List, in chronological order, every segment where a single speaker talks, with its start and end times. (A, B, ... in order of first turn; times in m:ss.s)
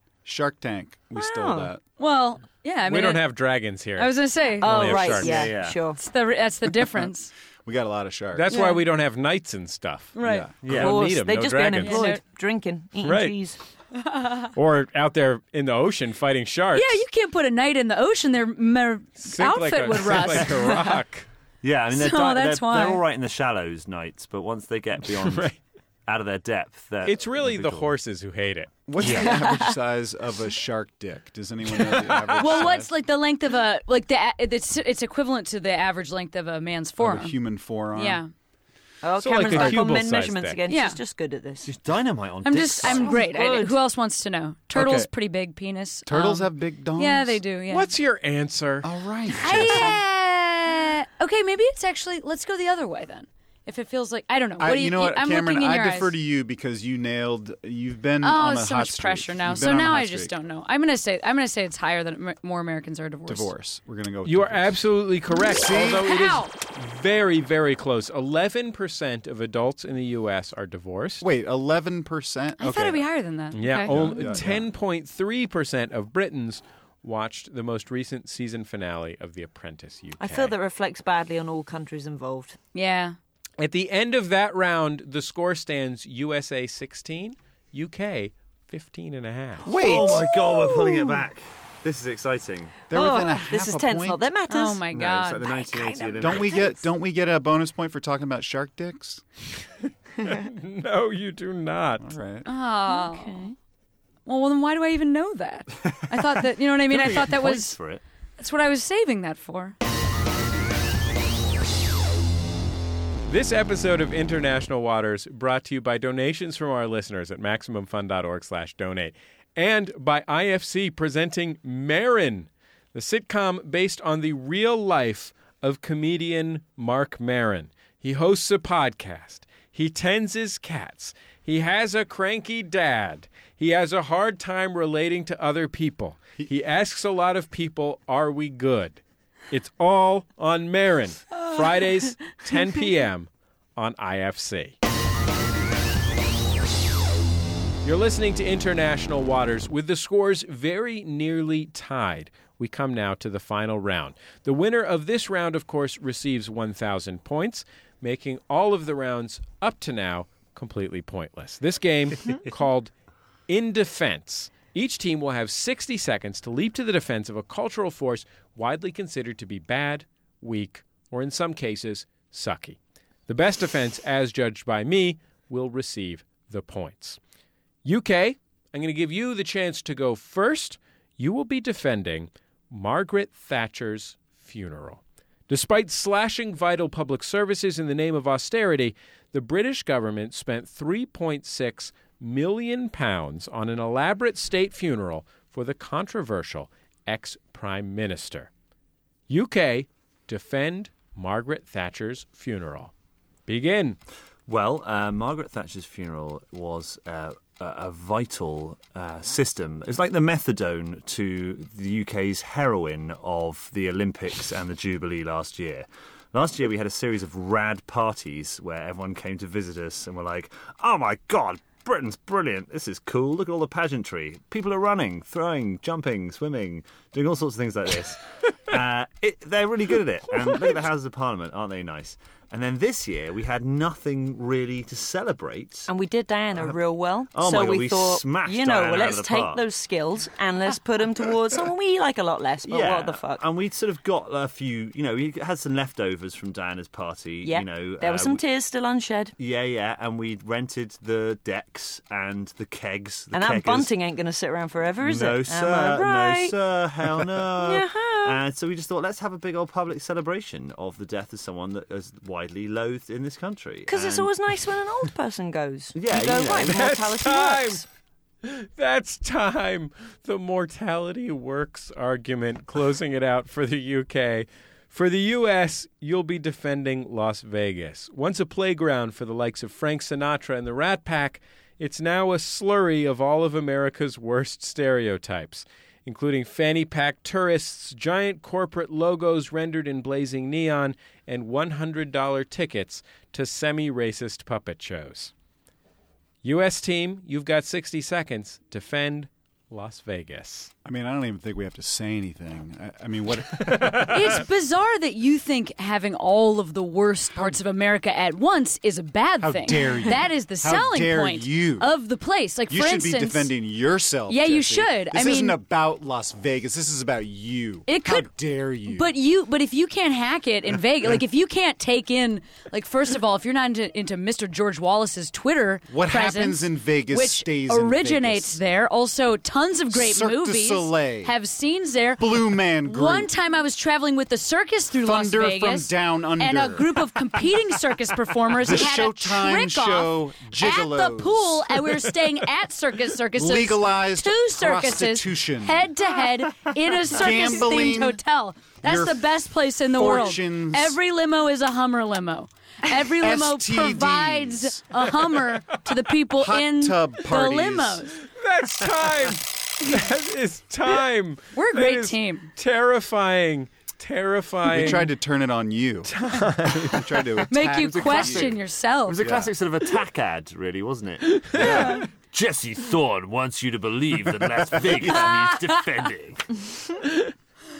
0:00.2-0:01.8 A
0:01.1-0:01.7 B
0:02.0-0:03.3 C
0:02.8-0:05.3 D
0:04.0-0:07.3 C
0:04.6-0:06.0 B
0:05.2-0:05.8 E
0:07.6-0:08.5 A
0:08.3-0:12.0 D
0:08.5-0:08.8 C
0:10.2-0:10.5 C
0:10.2-0:10.5 A
0:10.6-0:11.0 E
0:10.7-0:13.6 B
0:11.8-0:12.2 C
0:13.0-0:13.3 D
0:14.0-0:14.5 C
0:14.5-0:17.0 D
0:16.7-0:20.9 C
0:19.2-0:21.3 D
0:21.6-0:25.5 E
0:21.9-0:23.0 C
0:25.1-0:25.6 D
0:26.0-0:27.9 E
0:27.0-0:28.7 D
0:28.9-0:32.9 A
0:29.0-0:29.3 E
0:29.0-0:29.8 B
0:32.0-0:32.5 D
0:32.3-0:37.4 C
0:37.0-0:38.2 A
0:37.9-0:38.3 C
0:39.0-0:41.7 B
0:39.2-0:40.6 D
0:40.7-0:41.0 C
0:41.6-0:43.2 E
0:42.4-0:47.9 C
0:42.8-0:43.8 B
0:44.7-0:45.1 A
0:46.0-0:47.4 A
0:47.7-0:48.9 D
0:48.8-0:50.0 A
0:49.4-0:56.1 C
0:54.6-1:00.3 A
0:58.2-1:03.5 C
1:03.3-1:04.7 A
1:04.2-1:11.2 D
1:05.4-1:06.1 A
1:05.9-1:06.5 C
1:11.2-1:13.1 A
1:12.6-1:14.4 C
1:13.5-1:20.5 D
1:13.8-1:14.7 A
1:20.2-1:22.6 B
1:22.7-1:23.2 C
1:23.6-1:29.7 D
1:29.6-1:32.8 E
1:29.6-1:31.1 A
1:29.8-1:30.2 B
1:32.9-1:34.3 A
1:32.9-1:34.8 B
1:34.5-1:36.7 C
1:34.9-1:36.6 E
1:36.2-1:39.2 A
1:40.2-1:42.1 D
1:42.0-1:42.5 A
1:42.4-1:43.4 C
1:42.9-1:43.6 B
1:44.2-1:47.8 C
1:46.9-1:48.0 E
1:48.4-1:49.8 C
1:53.3-2:24.8 D
2:27.8-2:42.9 D
2:43.5-2:57.2 D
2:57.8-3:18.5 D
3:19.3-3:22.9 D
3:23.5-3:24.0 D
3:24.5-3:55.9 E
3:55.9-4:03.4 B
3:57.3-3:59.6 E
4:02.6-4:08.4 E
4:07.4-4:09.3 B
4:09.4-4:13.9 E
4:13.3-4:16.5 B
4:15.0-4:24.3 E
4:17.6-4:18.4 B
4:23.9-4:27.8 B
4:25.9-4:26.9 E
4:26.7-4:27.8 D
4:28.4-4:55.3 D
4:56.4-5:00.7 D
5:00.8-5:04.4 A
5:03.9-5:13.5 C
5:09.4-5:11.9 A
5:12.7-5:19.1 A
5:14.3-5:15.6 C
5:17.9-5:18.3 C
5:18.8-5:58.2 C
5:25.9-5:28.6 A
5:29.9-5:31.3 A
5:32.2-5:33.3 A
5:34.9-5:37.4 A
5:38.5-5:41.8 A
5:43.3-5:45.9 A
5:47.0-5:48.2 A
5:48.8-5:49.3 A
5:49.8-5:51.0 A
5:53.1-5:54.9 A
5:56.3-5:58.0 A
5:58.3-6:05.1 D
6:01.5-6:02.5 C
6:04.7-6:08.6 A
6:06.1-6:07.4 D
6:07.5-6:09.3 C
6:07.8-6:16.6 E
6:09.2-6:09.5 A
6:11.4-6:12.0 D
6:11.5-6:12.0 A
6:11.6-6:12.0 C
6:15.0-6:15.8 C